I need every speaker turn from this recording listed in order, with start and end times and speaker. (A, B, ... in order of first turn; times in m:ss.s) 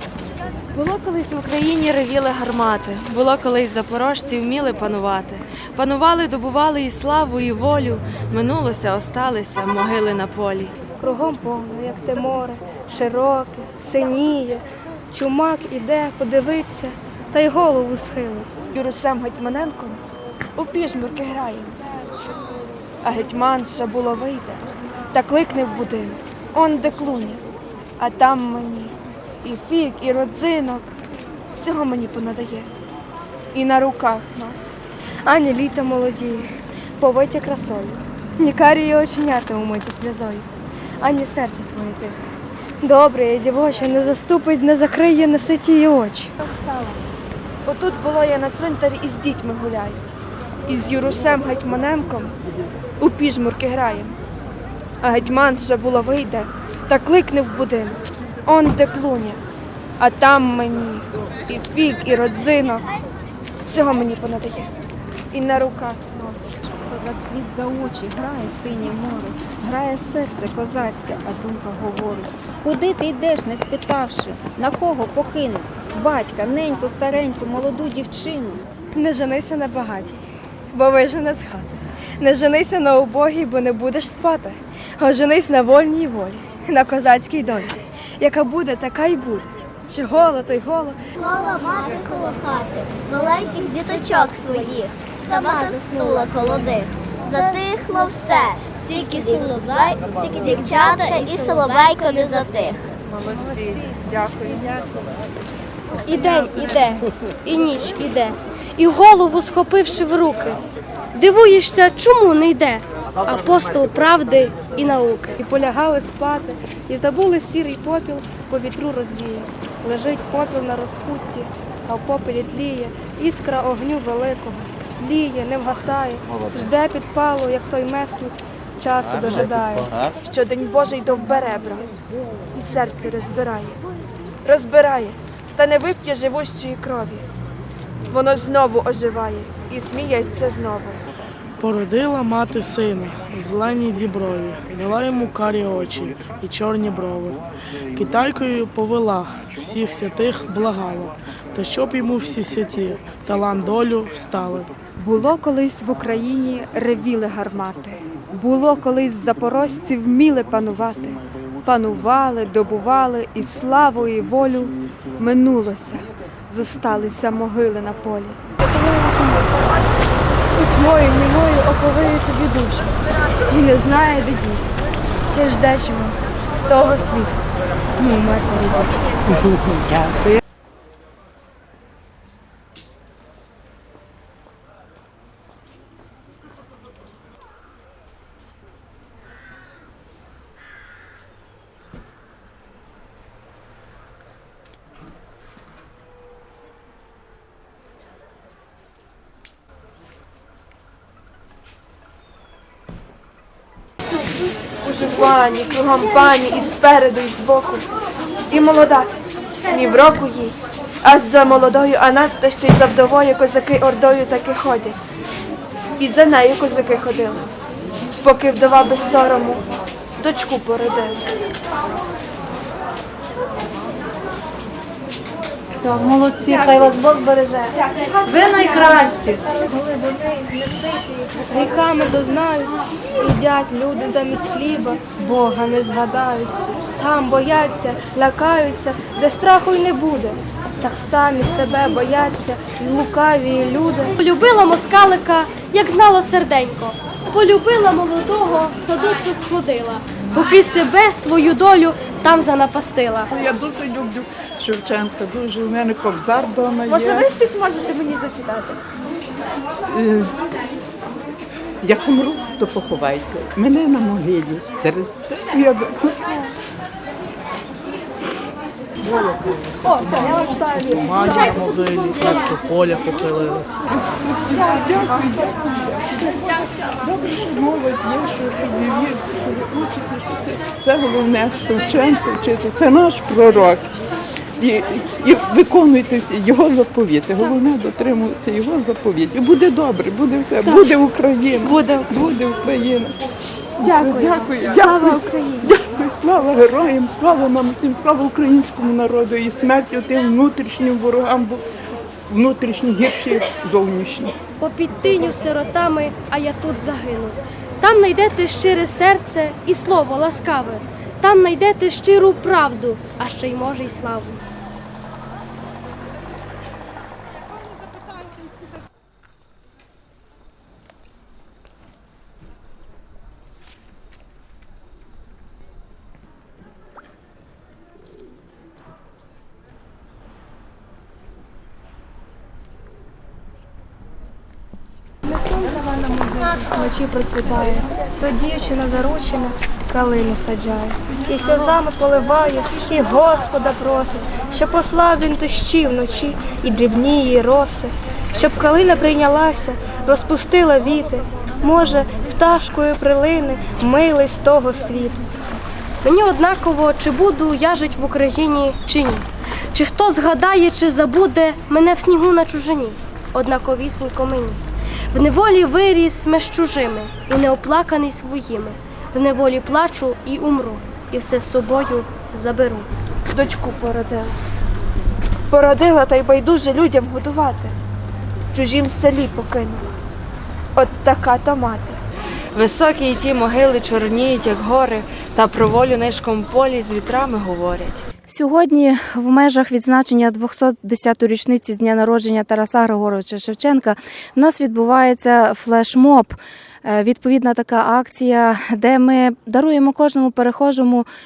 0:01.5-0:10.7 A
0:11.0-0:18.5 B
0:18.7-0:20.0 C
0:20.6-0:22.1 C
0:23.0-0:27.4 C
0:28.0-0:30.9 C
0:31.6-0:32.7 C
0:33.5-0:34.7 C
0:35.2-0:40.5 B
0:41.0-0:42.2 B
0:42.8-0:46.3 B
0:46.4-0:47.0 C
0:47.6-0:50.0 C
0:50.7-0:52.3 C
0:53.0-0:54.2 C
0:55.0-0:59.4 C
1:00.0-1:02.8 C
1:03.7-1:04.7 C
1:05.3-1:06.4 C
1:06.8-1:18.6 D
1:18.9-1:20.2 B
1:20.7-1:31.0 B
1:31.2-1:42.8 E
1:44.1-1:44.6 F
1:46.0-1:50.6 G
1:51.1-1:55.4 G
1:55.4-2:09.9 B
2:10.2-2:11.9 C
2:12.5-2:13.8 C
2:14.4-2:17.3 C
2:18.1-2:21.0 C
2:21.6-2:27.4 H
2:27.9-2:34.7 H
2:35.0-2:48.4 F
2:48.6-2:49.6 B
2:50.6-2:53.0 B
2:53.5-2:54.8 B
2:55.3-2:57.4 B
2:58.0-2:58.9 B
3:24.8-3:27.9 C
3:28.5-3:29.1 C
3:29.7-3:35.0 C
3:36.0-3:37.4 C
3:38.2-3:39.6 C
3:40.2-3:41.2 C
3:48.4-4:04.1 B
4:04.2-4:13.3 G
4:13.3-4:17.3 I
4:16.9-4:18.8 C
4:19.9-4:20.4 I
4:21.8-4:26.3 I
4:29.1-4:33.7 H
4:34.5-4:43.9 I
4:44.6-4:53.2 I
4:50.6-4:50.9 B
4:53.8-5:01.6 I
4:53.8-4:55.7 B
5:02.3-5:04.4 I
5:04.6-5:14.4 G
5:35.3-5:55.3 B
5:56.0-6:04.6 G
6:05.1-6:12.9 G
6:13.3-6:14.4 C
6:15.5-6:17.7 C
6:18.5-6:19.9 C
6:20.8-6:22.0 C
6:22.5-6:28.0 A
6:28.3-6:41.1 J